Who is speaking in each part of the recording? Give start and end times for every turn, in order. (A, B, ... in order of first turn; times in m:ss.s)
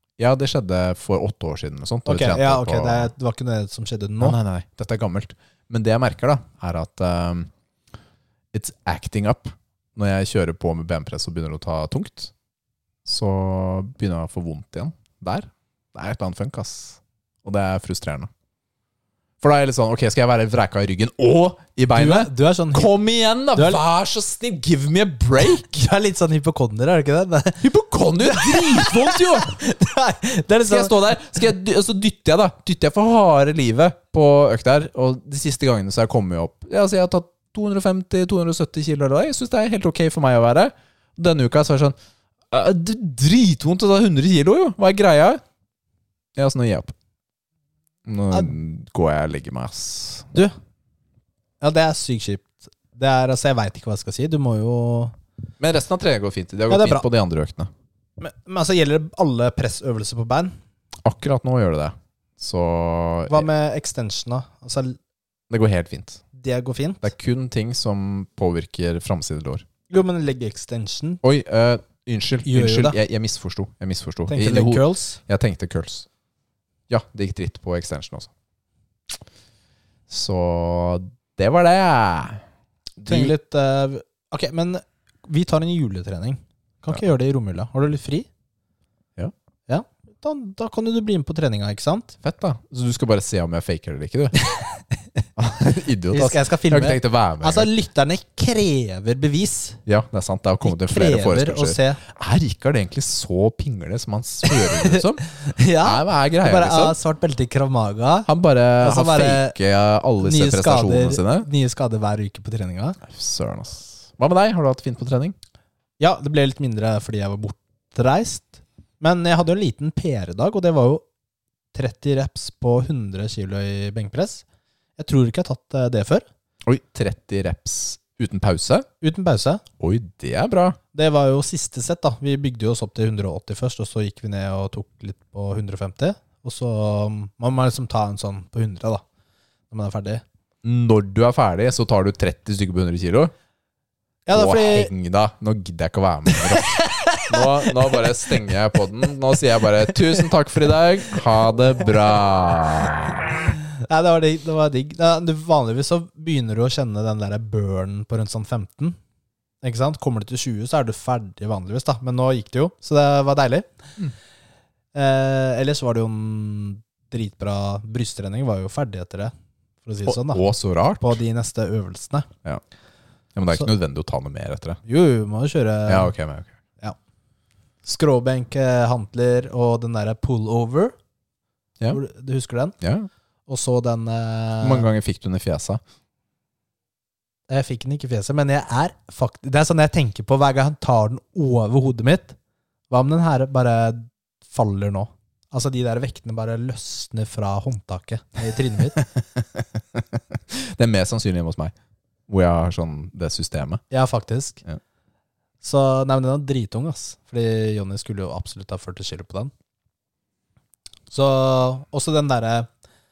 0:00.2-0:03.1 A
0:02.1-0:04.4 B
0:04.2-0:07.5 A
0:08.5-0:12.3 A
0:13.0-0:18.3 A
0:19.4-0:25.9 A
0:21.9-0:22.9 B
0:23.5-0:23.8 B
0:25.7-0:27.7 B
0:27.6-0:29.5 A
0:28.2-0:31.2 B
0:30.7-0:42.0 A
0:42.5-0:45.4 A
0:46.4-0:46.9 A
0:48.0-0:50.4 A
0:51.6-0:55.2 B
0:55.6-0:57.7 A
0:56.7-0:57.0 B
0:58.2-1:00.6 B
1:01.0-1:03.5 A
1:03.3-1:05.0 B
1:05.5-1:06.2 A
1:06.3-1:07.1 B
1:07.0-1:09.6 A
1:09.9-1:11.2 B
1:11.2-1:16.1 A
1:12.4-1:13.0 B
1:14.3-1:15.2 B
1:16.9-1:18.3 A
1:20.1-1:22.4 A
1:23.0-1:23.3 A
1:23.1-1:28.3 B
1:29.7-1:32.2 B
1:32.2-1:34.4 A
1:34.5-1:34.8 B
1:35.4-1:37.7 A
1:36.1-1:39.8 B
1:39.9-1:45.2 A
1:40.6-1:42.0 B
1:44.5-1:48.3 B
1:45.8-1:47.0 A
1:48.3-1:51.5 A
1:48.8-1:49.6 B
1:50.2-1:53.0 B
1:53.0-1:55.4 A
1:56.0-2:01.0 B
2:01.7-2:04.4 B
2:05.0-2:06.2 B
2:06.6-2:08.9 A
2:09.0-2:09.6 B
2:09.8-2:10.8 A
2:10.9-2:19.0 B
2:19.7-2:20.2 B
2:20.6-2:23.3 A
2:24.3-2:24.9 B
2:24.3-2:33.3 A
2:26.5-2:28.3 B
2:33.6-2:39.0 B
2:39.6-2:43.7 B
2:45.0-2:49.3 B
2:49.8-2:50.4 B
2:50.1-2:51.2 A
2:51.0-2:52.3 B
2:53.3-2:54.8 A
2:54.9-2:56.1 B
2:55.9-2:56.6 A
2:57.8-3:00.9 B
3:01.9-3:02.8 B
3:02.8-3:03.1 A
3:03.5-3:04.9 B
3:04.6-3:05.8 A
3:07.5-3:12.4 B
3:12.9-3:19.0 B
3:19.0-3:21.7 A
3:22.3-3:23.8 A
3:23.9-3:24.6 B
3:25.6-3:29.5 B
3:31.1-3:32.7 B